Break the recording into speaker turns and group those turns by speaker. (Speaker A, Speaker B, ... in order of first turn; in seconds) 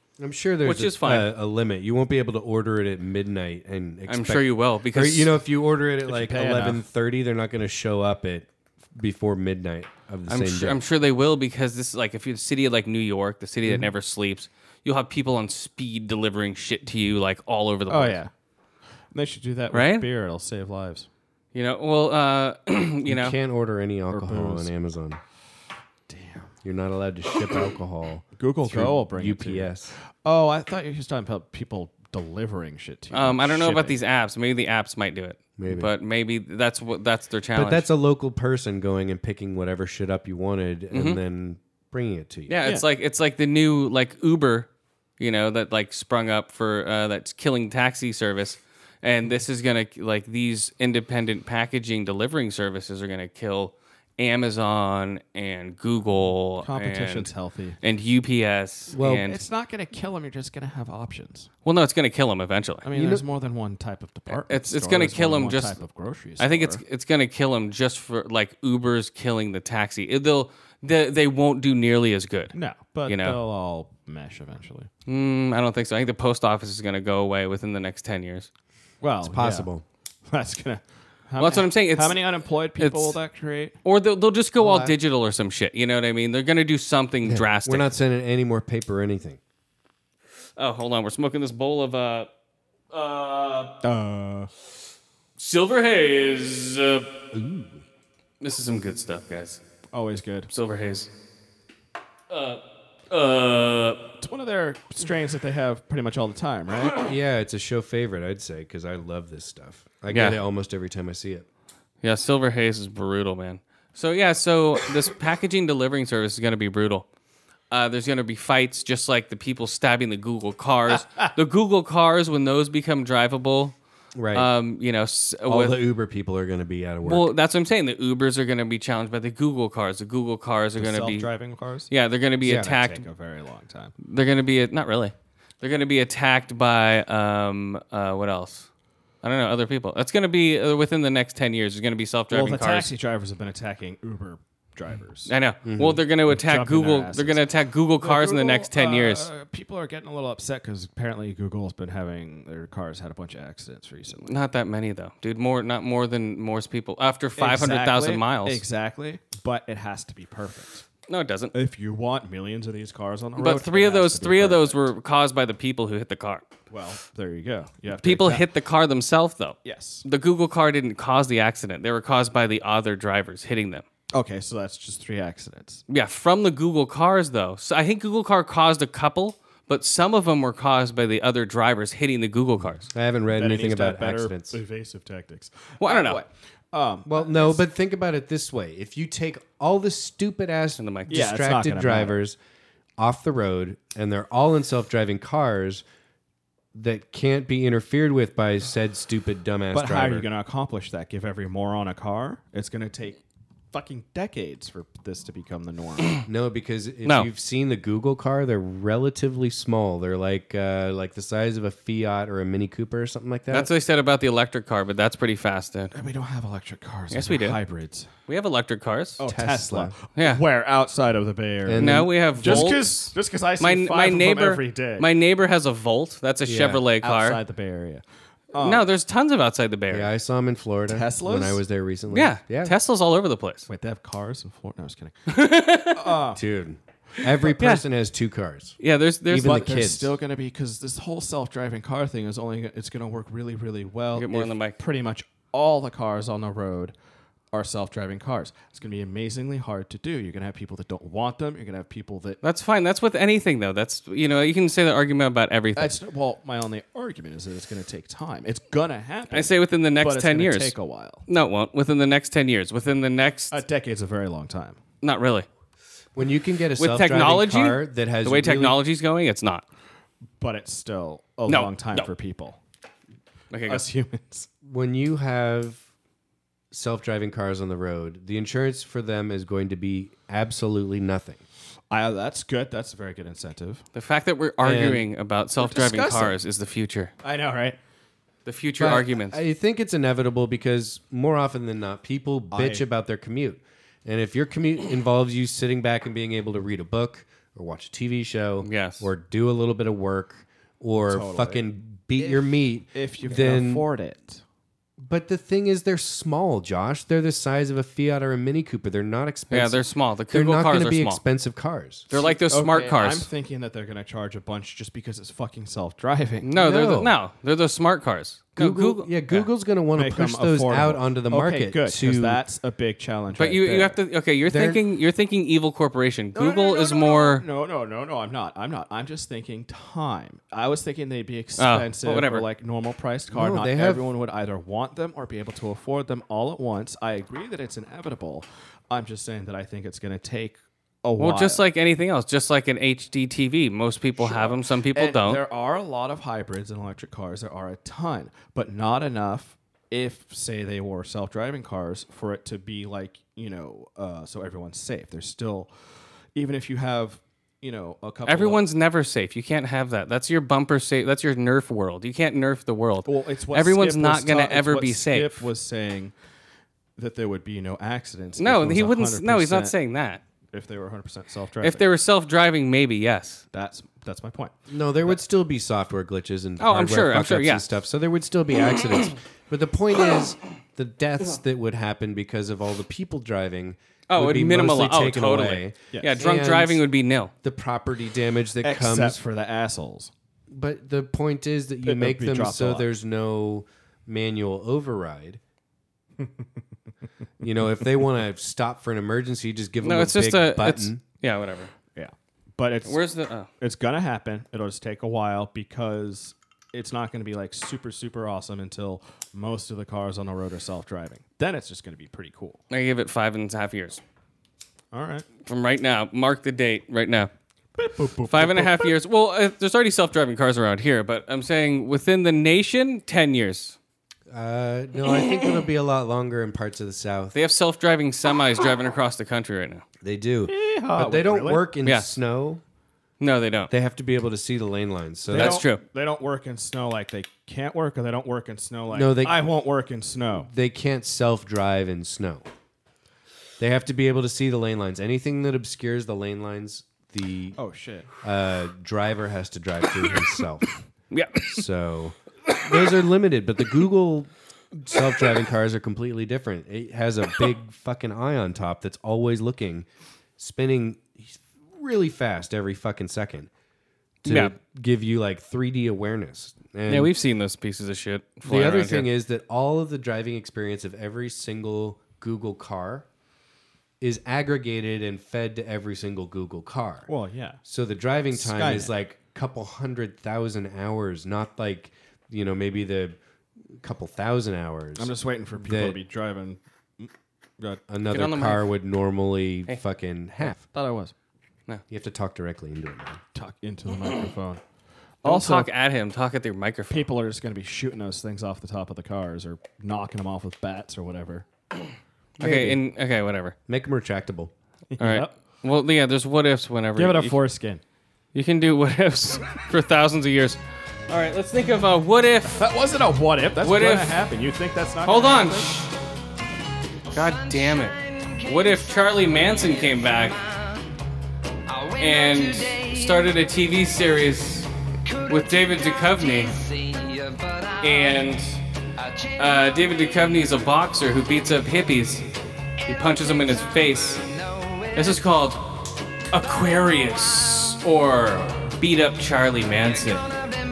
Speaker A: 0.2-10.8, 23.1-25.2, 26.6-29.9, 35.6-35.9, 37.5-42.5, 58.9-59.2, 62.9-63.2, 79.2-79.8, 84.6-84.9, 87.2-89.4, 97.3-97.8, 107.0-111.4, 124.1-124.5, 125.5-127.3, 132.4-132.8, 145.6-146.0, 182.9-184.6, 187.1-192.4, 193.0-195.8, 196.7-200.3, 206.3-213.7, 219.3-219.9, 221.6-222.8, 226.4-226.9, 229.9-232.8, 236.3-238.8, 239.3-240.1, 266.1-268.8, 274.6-275.8, 276.7-281.4, 284.6-285.1, 288.8-303.9, 305.0-312.1, 316.6-317.1, 318.6-322.4, 324.5-324.8, 333.3-334.0, 374.7-386.8, 387.4-389.2, 390.5-395.4, 397.4-401.0, 424.3-427.4, 430.0-432.6, 433.7-435.6, 438.9-439.4, 440.4-442.4, 443.6-447.6, 448.2-450.8, 451.4-459.9, 460.4-463.5, 464.2-467.1, 468.4-473.1, 474.0-477.1, 477.6-483.2, 483.7-486.0, 487.9-490.6, 491.9-493.2, 502.4-502.8, 503.7-504.5
Speaker B: 0.6-1.3, 4.1-5.3, 10.3-18.2, 19.7-20.1, 21.5-23.3, 33.1-37.9, 40.9-41.2, 42.5-44.7, 45.2-57.3, 57.8-59.4, 61.6-62.9, 64.3-65.8, 66.4-72.5, 73.1-73.4, 75.1-78.5, 81.4-82.2, 82.8-83.2, 83.8-87.9, 90.6-92.3, 92.9-93.8, 95.4-97.2, 98.4-99.6, 100.5-101.1, 102.3-104.1, 110.1-110.4, 112.0-117.1, 117.7-123.7, 124.3-125.8, 127.0-131.3, 131.9-133.0, 134.0-138.7, 139.2-142.9, 145.2-149.3, 154.2-158.6, 161.1-161.5, 163.4-166.4, 167.9-173.8, 175.9-182.9, 185.8-186.2, 190.8-191.3, 213.5-215.9, 217.1-217.6, 218.3-219.2, 220.2-220.4, 221.8-227.4, 228.6-230.1, 232.1-233.7, 235.3-236.2, 237.4-237.8, 238.8-239.6, 244.1-244.8, 252.4-255.9, 259.3-260.7, 261.3-263.6, 265.0-265.5, 266.8-269.6, 271.5-272.1, 273.5-273.8, 283.9-287.1, 288.4-289.4, 298.6-299.1, 309.5-311.2, 312.1-313.3, 316.4-319.4, 323.3-327.4, 331.6-332.4, 341.2-345.4, 358.2-365.5, 368.4-370.2, 371.6-373.4, 376.6-377.6, 384.1-387.3, 399.8-401.7, 402.8-403.5, 412.7-414.0, 415.4-417.3, 418.3-423.8, 427.3-429.8, 433.2-433.7, 435.3-435.8, 451.1-451.6, 464.2-464.5, 466.9-469.1, 488.1-488.6, 495.2-497.1, 502.4-503.5, 505.0-507.4, 508.3-512.7, 513.6-514.2, 515.0-515.9, 517.1-520.5, 521.8-526.7, 527.8-528.6, 529.4-532.3, 532.8-534.3, 534.9-540.4
Speaker C: 6.0-6.8, 17.9-18.3, 19.1-21.1, 24.1-24.7, 26.1-26.5, 28.4-29.7, 30.2-34.0, 56.6-57.8, 59.2-61.5, 62.8-66.8, 72.5-74.9, 79.0-79.7, 80.3-83.8, 93.8-94.5, 99.9-100.5, 104.2-107.0, 130.8-131.9, 132.4-133.9, 142.3-145.3, 146.3-147.4, 148.0-154.4, 157.4-160.8, 161.5-164.8, 166.7-168.4, 169.6-170.0, 174.1-175.8, 183.3-187.6, 191.1-192.2, 199.7-203.2, 203.7-206.2, 215.9-218.1, 219.2-225.1, 227.0-228.9, 230.9-231.6, 233.7-235.1, 235.9-236.4, 239.4-246.9, 247.5-252.4, 255.8-261.2, 263.5-264.8, 270.4-272.6, 273.7-274.5, 281.9-283.8, 285.6-286.4, 287.2-287.8, 292.5-292.8, 301.1-301.6, 302.2-304.4, 312.1-316.5, 319.9-324.0, 326.3-341.6, 344.2-355.7, 356.4-358.6, 363.1-366.1, 367.0-369.8, 370.5-371.9, 373.5-375.2, 388.6-390.1, 391.8-392.9, 401.9-403.0, 403.6-412.6, 414.9-415.2, 417.8-418.9, 430.5-431.6, 435.3-440.5, 447.6-448.1, 477.1-477.6, 478.3-478.9, 485.0-487.8, 490.4-491.1, 493.3-494.6, 495.2-495.7, 496.9-501.4, 504.9-505.3, 506.9-507.8, 512.5-515.7